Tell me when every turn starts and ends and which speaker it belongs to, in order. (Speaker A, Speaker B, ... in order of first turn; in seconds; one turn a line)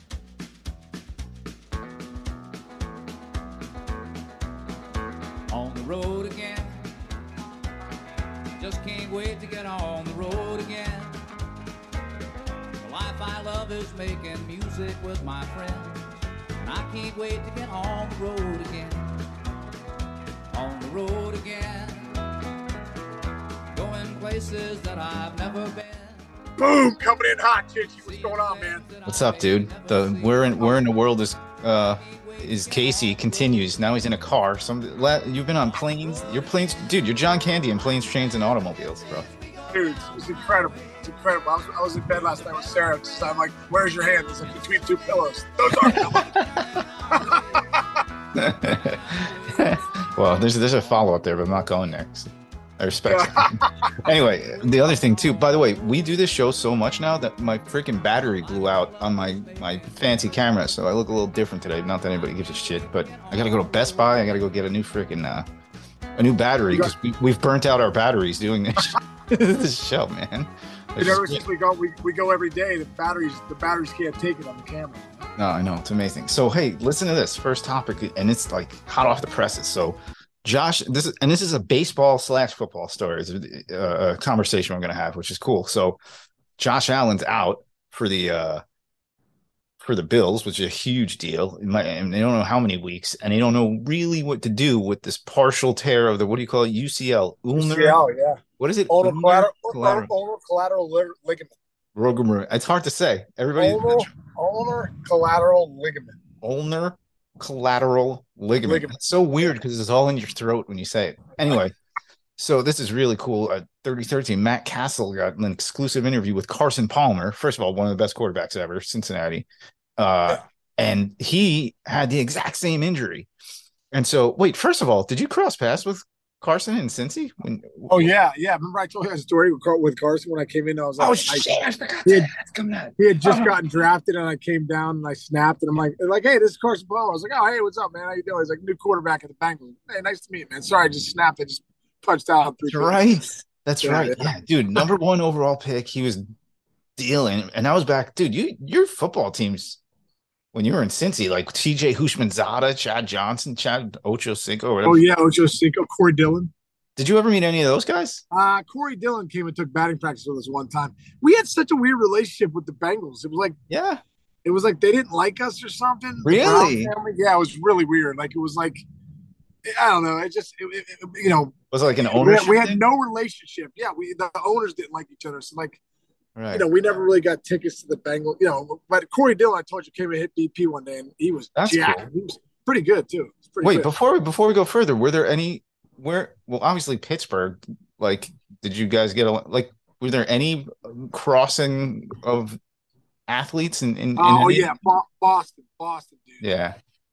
Speaker A: 5.5-6.9
Speaker A: 8.6-11.2
Speaker A: 12.8-16.1
Speaker A: 16.6-19.1
Speaker A: 20.5-22.2
Speaker A: 23.7-26.3
Speaker B: 26.6-28.8
Speaker A: 28.0-34.0
Speaker C: 29.1-39.3
Speaker A: 35.8-36.7
Speaker A: 37.6-43.0
Speaker B: 39.7-46.3
Speaker A: 44.4-45.3
Speaker A: 45.8-47.8
Speaker C: 45.9-46.6
Speaker B: 47.3-47.8
Speaker C: 48.3-48.9
Speaker A: 48.3-51.4
Speaker C: 49.5-65.5
Speaker B: 53.1-53.9
Speaker A: 54.2-55.9
Speaker A: 58.2-60.7
Speaker A: 62.1-64.6
Speaker C: 66.2-71.4
Speaker B: 71.0-75.3
Speaker C: 75.4-86.0
Speaker C: 86.6-88.6
Speaker C: 89.8-98.0
Speaker B: 97.5-101.5
Speaker C: 98.6-100.1
Speaker C: 102.0-104.1
Speaker B: 103.5-106.2
Speaker C: 106.4-111.8
Speaker B: 108.6-108.9
Speaker C: 112.4-119.5
Speaker C: 120.0-123.3
Speaker C: 123.9-128.1
Speaker B: 127.9-132.3
Speaker C: 131.0-133.5
Speaker B: 133.0-143.2
Speaker C: 142.7-146.2
Speaker B: 143.8-144.8
Speaker C: 147.0-149.8
Speaker C: 150.5-155.0
Speaker B: 154.8-156.5
Speaker C: 157.0-158.2
Speaker B: 158.3-163.5
Speaker C: 163.7-164.0
Speaker B: 164.4-168.8
Speaker C: 166.2-166.9
Speaker B: 169.6-175.8
Speaker C: 171.7-172.8
Speaker C: 176.3-176.7
Speaker B: 176.5-183.9
Speaker C: 181.6-182.1
Speaker C: 183.6-192.6
Speaker C: 193.3-194.7
Speaker B: 194.2-196.4
Speaker C: 196.4-196.8